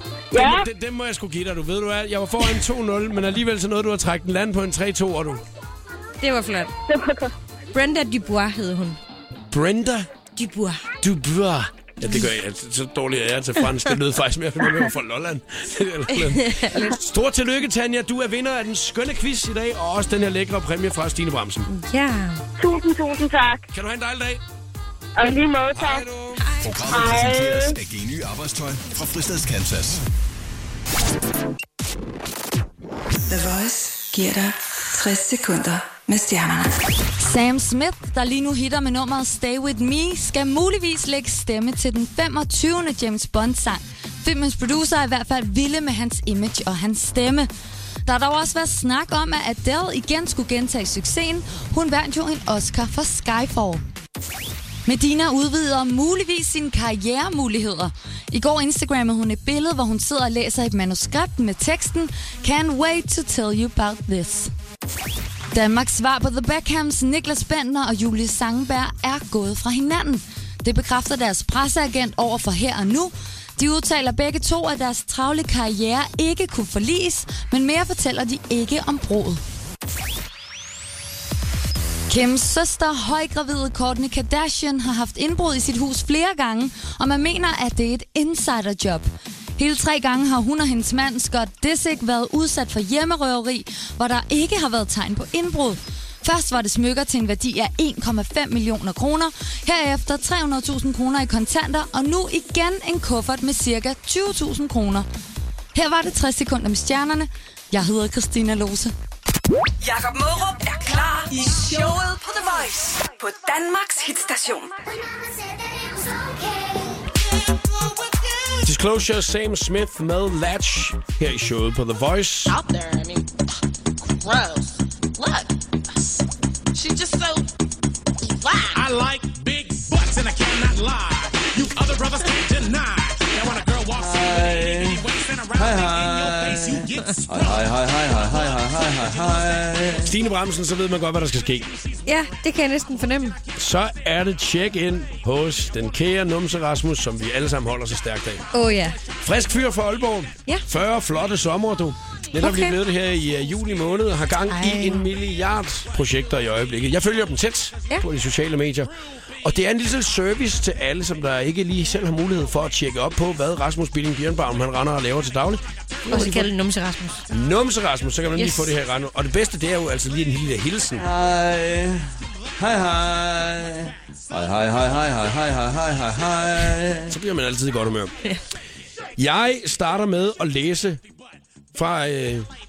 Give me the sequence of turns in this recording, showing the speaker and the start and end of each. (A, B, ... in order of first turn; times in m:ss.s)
0:00.3-0:00.7 A
0:00.3-0:05.4 B
0:06.2-0:06.8 C
0:06.9-0:07.3 A
0:07.7-0:09.0 C
0:09.5-0:10.1 B
0:10.4-0:10.9 C
0:11.0-0:21.7 B
0:16.1-0:17.0 C
0:21.7-0:22.4 C
0:22.6-0:23.7 A
0:23.7-0:24.4 B
0:25.2-0:26.1 A
0:25.7-0:26.5 B
0:26.4-0:26.7 C
0:26.6-0:30.0 D
0:26.9-0:27.8 A
0:33.3-0:36.8 E
0:37.2-0:47.5 F
0:48.0-0:53.8 F
0:54.9-1:04.5 F
1:05.5-1:19.4 F
1:22.1-1:45.1 F
1:45.7-1:48.9 F
1:49.8-1:54.9 G
1:58.6-2:02.6 B
2:02.5-2:03.3 H
2:04.1-2:06.2 H
2:06.7-2:07.5 H
2:08.2-2:09.1 H
2:08.8-2:17.5 I
2:13.9-2:20.1 J
2:20.0-2:21.8 B
2:22.1-2:23.4 C
2:23.5-2:28.5 B
2:28.5-2:29.0 C
2:29.1-2:38.9 B
2:32.4-2:32.8 C
2:34.5-2:35.1 C
2:39.4-2:46.5 B
2:46.1-2:47.3 C
2:47.3-2:51.0 B
2:48.4-2:48.7 C
2:51.0-2:57.2 J
2:57.1-2:58.2 B
2:59.2-3:01.0 B
3:01.7-3:02.5 B